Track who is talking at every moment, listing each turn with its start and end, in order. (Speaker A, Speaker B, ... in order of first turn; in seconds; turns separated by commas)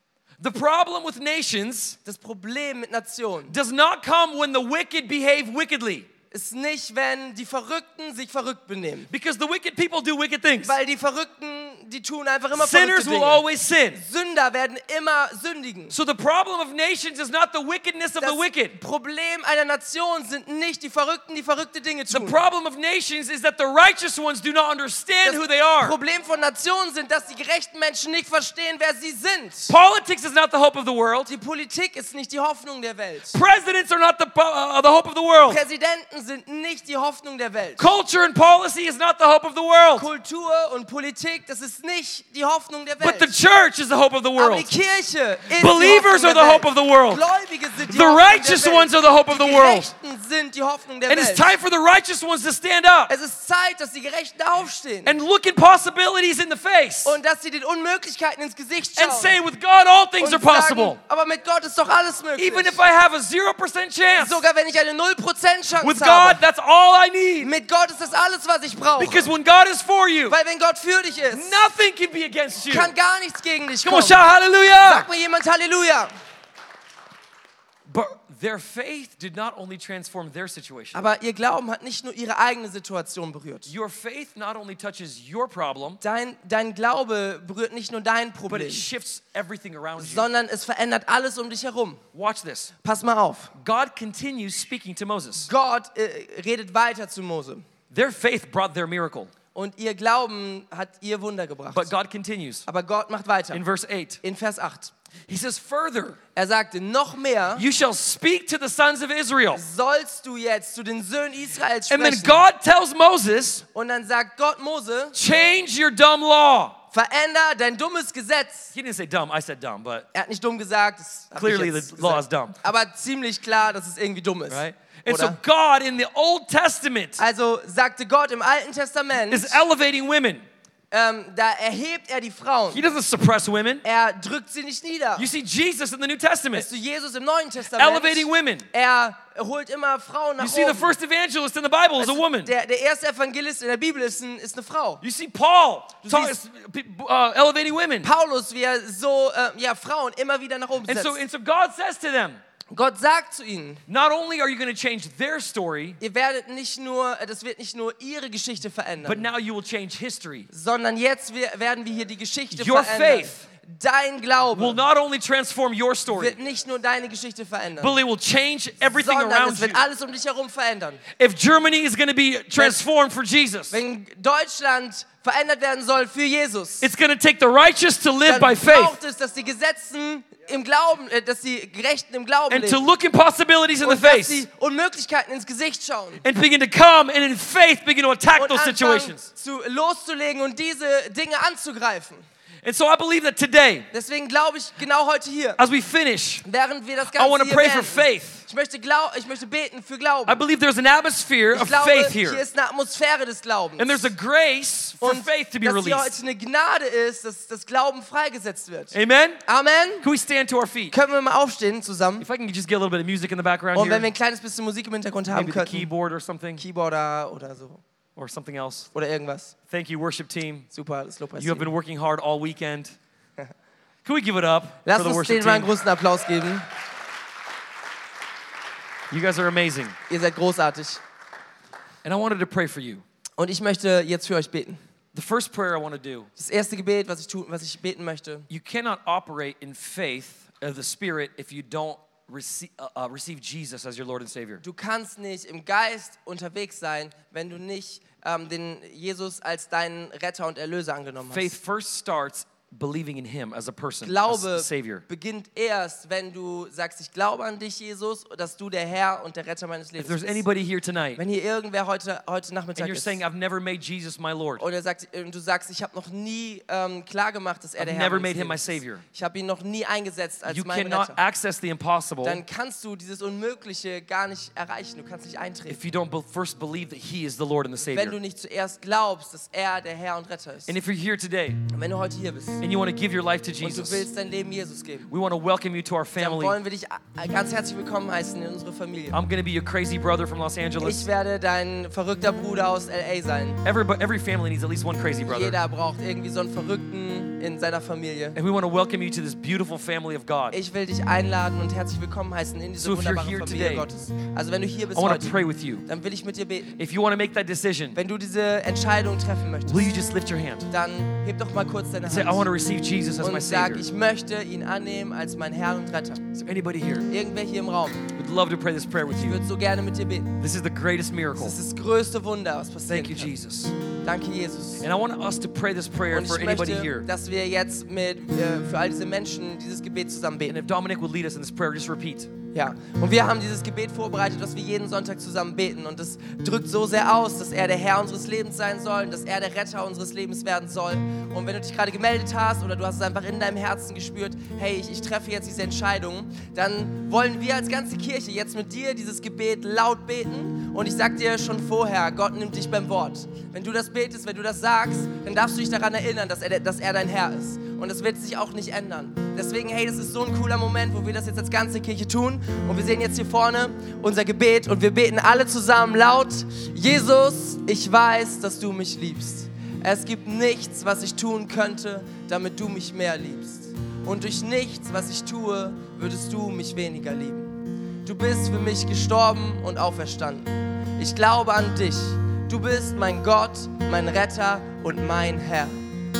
Speaker A: 0.4-2.0, Speaker B: 2.0-3.5, Speaker A: 3.5-6.1, Speaker B: 6.3-9.1, Speaker A: 9.1-10.8, Speaker B: 10.6-13.4, Speaker A: 12.5-14.0, Speaker B: 13.9-15.9, Speaker A: 15.9-18.8, Speaker B: 18.2-22.4, Speaker A: 22.1-26.0, Speaker B: 25.2-29.7, Speaker A: 29.7-31.3, Speaker B: 31.2-33.4, Speaker A: 33.3-35.6, Speaker B: 35.5-37.9, Speaker A: 37.8-40.0, Speaker B: 40.0-43.3, Speaker A: 43.0-44.7, Speaker B: 44.4-51.5, Speaker A: 45.5-47.2, Speaker A: 47.8-49.9, Speaker A: 51.1-53.1, Speaker B: 53.1-55.1, Speaker A: 55.0-57.2, Speaker B: 57.0-59.4, Speaker A: 59.0-61.0, Speaker B: 60.2-62.8, Speaker A: 62.4-64.4, Speaker B: 64.2-66.4, Speaker A: 65.8-67.5, Speaker B: 67.4-69.3, Speaker A: 69.0-70.4, Speaker B: 70.3-71.6, Speaker A: 71.3-72.9, Speaker B: 72.5-74.2, Speaker A: 73.8-75.1, Speaker B: 74.8-76.1, Speaker A: 77.9-81.0, Speaker B: 80.9-83.7, Speaker A: 83.7-86.0, Speaker B: 86.0-88.8, Speaker A: 88.5-90.3, Speaker B: 90.0-92.0, Speaker A: 92.1-92.7, Speaker B: 92.8-93.5, Speaker A: 93.6-95.5, Speaker B: 95.4-97.6, Speaker A: 97.9-99.3, Speaker B: 99.5-101.9, Speaker A: 101.7-102.7, Speaker B: 102.7-103.6, Speaker A: 103.5-104.2, Speaker B: 104.2-104.9, Speaker A: 105.3-106.2, Speaker B: 106.3-107.6, Speaker A: 107.6-109.6, Speaker B: 109.5-112.4, Speaker A: 111.9-113.6, Speaker B: 113.7-115.2, Speaker A: 115.1-116.8, Speaker B: 116.9-118.7, Speaker A: 118.7-120.1, Speaker B: 120.1-125.4, Speaker A: 121.3-122.6, Speaker A: 124.5-127.2, Speaker B: 127.2-129.6, Speaker A: 129.3-130.4, Speaker B: 130.9-132.8, Speaker A: 132.7-133.8, Speaker B: 133.8-135.2, Speaker A: 135.2-136.7, Speaker B: 136.5-140.9, Speaker A: 137.7-138.7, Speaker A: 140.4-142.5, Speaker B: 142.0-145.0, Speaker A: 145.0-148.1, Speaker B: 146.0-146.4, Speaker B: 148.0-151.2, Speaker A: 150.8-152.4, Speaker B: 152.7-153.8, Speaker A: 153.9-156.0, Speaker B: 156.0-159.3, Speaker A: 159.0-160.5, Speaker B: 160.5-164.8, Speaker A: 162.5-163.4, Speaker A: 164.5-166.4, Speaker B: 166.1-167.9, Speaker A: 167.8-169.8, Speaker B: 168.9-171.0, Speaker A: 171.2-173.8, Speaker B: 173.7-176.9, Speaker A: 176.8-179.0, Speaker B: 178.2-182.8, Speaker A: 182.5-184.4, Speaker B: 183.8-186.2, Speaker A: 186.2-189.3, Speaker B: 188.3-192.2, Speaker A: 192.6-193.9, Speaker B: 193.9-195.6, Speaker A: 195.6-196.4, Speaker B: 196.4-200.4, Speaker A: 197.1-198.4, Speaker A: 200.3-202.4, Speaker B: 201.5-204.1, Speaker A: 203.8-206.1, Speaker B: 205.0-208.9, Speaker A: 208.9-209.4, Speaker B: 209.4-210.1, Speaker A: 210.0-210.9, Speaker B: 210.9-212.3, Speaker A: 212.2-214.1, Speaker B: 213.7-215.9, Speaker A: 215.3-216.6, Speaker B: 216.6-217.8, Speaker A: 218.2-218.9, Speaker B: 218.9-219.5, Speaker A: 219.7-220.7, Speaker B: 220.7-221.7, Speaker A: 221.4-222.9, Speaker A: 224.0-225.7, Speaker B: 224.8-226.7, Speaker A: 229.1-229.9, Speaker B: 230.1-231.0, Speaker A: 232.0-233.0, Speaker B: 233.4-234.8, Speaker A: 235.1-236.3, Speaker B: 236.4-238.4, Speaker A: 238.5-244.6, Speaker B: 244.6-251.5, Speaker A: 251.3-255.0, Speaker B: 254.0-260.4, Speaker A: 260.0-261.2, Speaker B: 261.1-263.2, Speaker A: 262.8-264.6, Speaker B: 264.6-271.2, Speaker A: 267.8-269.0, Speaker A: 270.5-272.4, Speaker B: 272.2-275.8, Speaker A: 275.7-278.1, Speaker B: 277.9-280.8, Speaker A: 280.7-281.6, Speaker B: 281.7-282.6, Speaker A: 282.6-284.1, Speaker B: 283.6-285.1, Speaker A: 285.1-286.6, Speaker B: 286.2-289.2, Speaker A: 289.1-291.1, Speaker B: 290.8-293.6, Speaker A: 293.6-295.6, Speaker B: 295.3-298.4, Speaker A: 298.4-300.6, Speaker B: 300.5-306.8, Speaker A: 302.8-303.9, Speaker A: 304.9-305.8, Speaker A: 306.8-308.0, Speaker B: 307.9-310.0, Speaker A: 309.6-310.7, Speaker B: 310.7-312.5, Speaker A: 312.1-313.8, Speaker B: 313.2-316.2, Speaker A: 316.3-317.1, Speaker B: 317.1-318.0, Speaker A: 318.1-319.4, Speaker B: 319.1-320.3, Speaker A: 320.4-321.6, Speaker B: 321.4-323.3, Speaker A: 322.9-323.7, Speaker B: 324.0-324.9, Speaker A: 324.8-327.1, Speaker B: 326.1-330.6, Speaker A: 330.4-332.3, Speaker B: 332.5-385.8